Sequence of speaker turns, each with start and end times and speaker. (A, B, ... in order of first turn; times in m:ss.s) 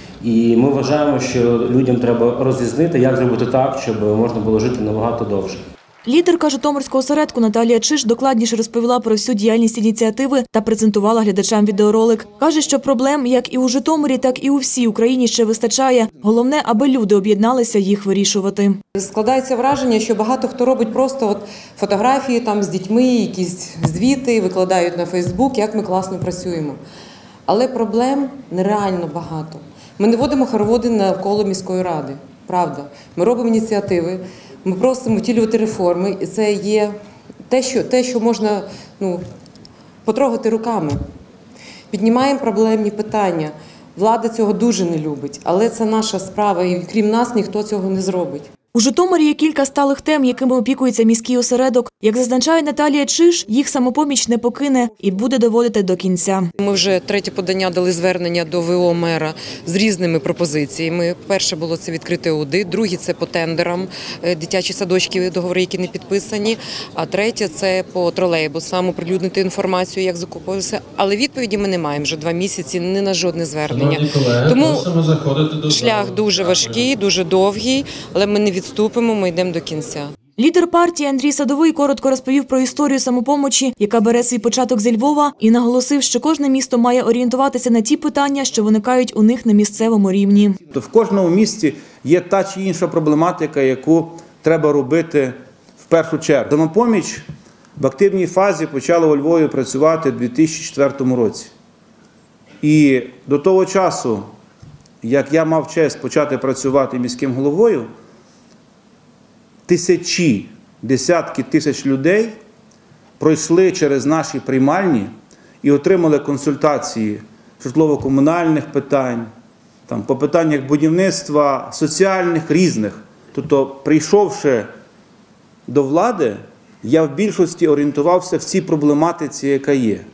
0:00.2-0:05.7 A
0:06.0-0:18.8 B
0:19.0-0:26.8 C
0:27.5-0:36.9 C
0:37.5-0:39.2 C
0:40.1-0:41.0 C
0:41.9-0:48.5 C
0:48.7-0:56.5 B
0:56.6-1:14.9 C
1:13.9-1:16.6 D
1:15.6-1:20.1 C
1:20.4-1:30.6 B
1:30.7-1:37.2 E
1:37.8-1:41.5 E
1:42.6-1:44.2 E
1:45.0-1:47.9 E
1:49.7-1:52.4 E
1:53.2-1:55.1 E
1:55.6-1:59.3 E
1:59.9-2:04.7 E
2:05.7-2:10.0 E